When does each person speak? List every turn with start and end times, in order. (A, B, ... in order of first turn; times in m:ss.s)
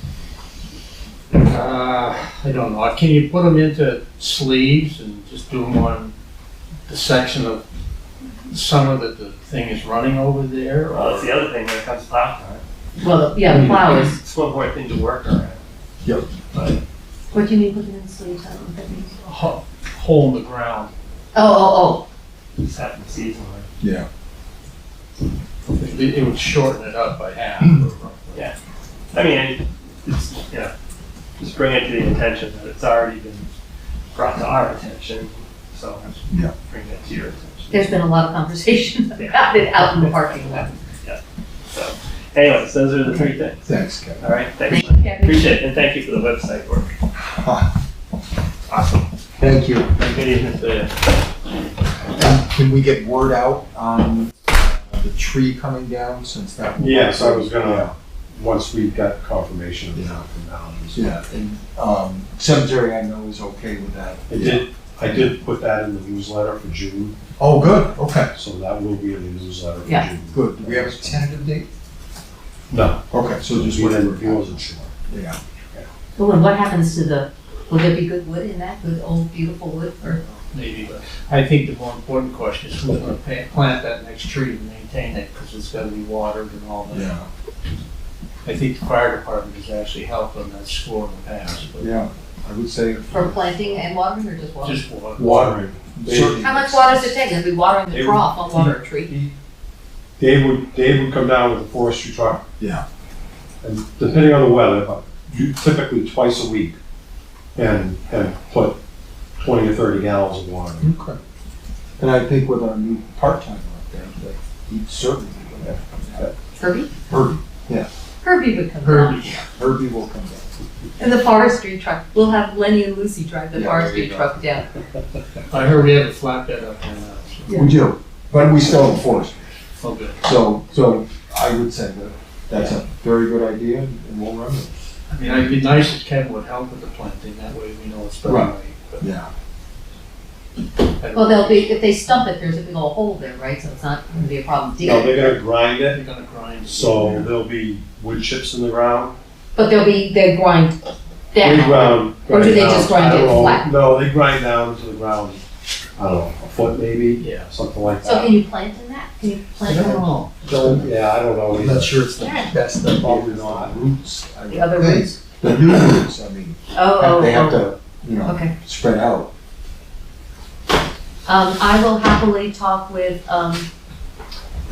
0:01.3-0:06.1 A
0:06.9-0:07.6 A
0:08.5-0:11.4 A
0:10.9-0:12.6 B
0:13.0-0:14.1 C
0:13.7-0:15.6 B
0:16.5-0:16.8 B
0:17.3-0:19.2 C
0:19.2-0:20.9 A
0:21.3-0:22.0 C
0:22.6-0:23.7 B
0:23.8-0:24.1 D
0:25.7-0:28.4 A
0:29.1-0:30.7 B
0:31.4-0:33.5 B
0:34.1-0:38.0 B
0:36.3-0:36.5 D
0:37.7-0:40.7 C
0:39.2-0:40.5 B
0:41.0-0:43.6 B
0:43.6-0:44.2 D
0:44.2-0:46.9 B
0:44.7-0:45.5 C
0:47.2-0:47.7 D
0:48.7-0:49.1 B
0:49.4-0:50.0 D
0:50.0-0:51.0 B
0:52.1-0:57.9 D
0:56.8-1:01.2 E
0:59.9-1:00.2 D
1:00.9-1:05.3 D
1:04.3-1:07.2 E
1:07.4-1:08.3 D
1:08.3-1:11.3 E
1:10.3-1:11.7 D
1:12.7-1:14.9 E
1:13.1-1:15.4 D
1:16.2-1:20.2 C
1:20.2-1:27.1 A
1:26.9-1:27.3 D
1:28.4-1:31.9 A
1:31.8-1:33.4 D
1:33.1-1:34.8 C
1:34.6-1:35.6 A
1:35.2-1:36.4 E
1:35.8-1:37.1 D
1:36.4-1:39.1 C
1:37.9-1:39.3 E
1:40.2-1:42.4 E
1:42.6-1:42.8 D
1:43.6-1:46.8 E
1:47.6-1:48.8 E
1:49.4-1:50.9 E
1:50.8-1:51.2 D
1:52.0-1:56.3 D
1:56.6-1:56.9 C
1:57.1-1:57.9 D
1:58.2-1:59.2 C
1:58.8-1:59.5 A
1:59.4-2:00.5 D
2:01.0-2:04.7 C
2:03.5-2:04.1 D
2:05.5-2:07.6 A
2:07.5-2:09.5 D
2:09.8-2:10.2 A
2:10.2-2:14.8 D
2:15.1-2:19.0 A
2:18.2-2:19.3 D
2:21.0-2:21.8 A
2:21.1-2:25.3 C
2:24.8-2:26.0 E
2:25.9-2:27.0 A
2:26.7-2:29.1 E
2:27.0-2:27.3 D
2:29.5-2:30.8 C
2:31.3-2:33.7 C
2:31.4-2:35.4 E
2:36.0-2:38.3 E
2:37.2-2:37.5 A
2:38.0-2:40.1 C
2:39.6-2:40.9 D
2:39.7-2:40.8 A
2:40.5-2:41.9 E
2:41.5-2:49.3 D
2:42.2-2:42.5 C
2:43.0-2:43.8 E
2:44.5-2:45.1 C
2:46.7-2:47.7 C
2:48.2-2:48.5 C
2:51.2-2:53.7 C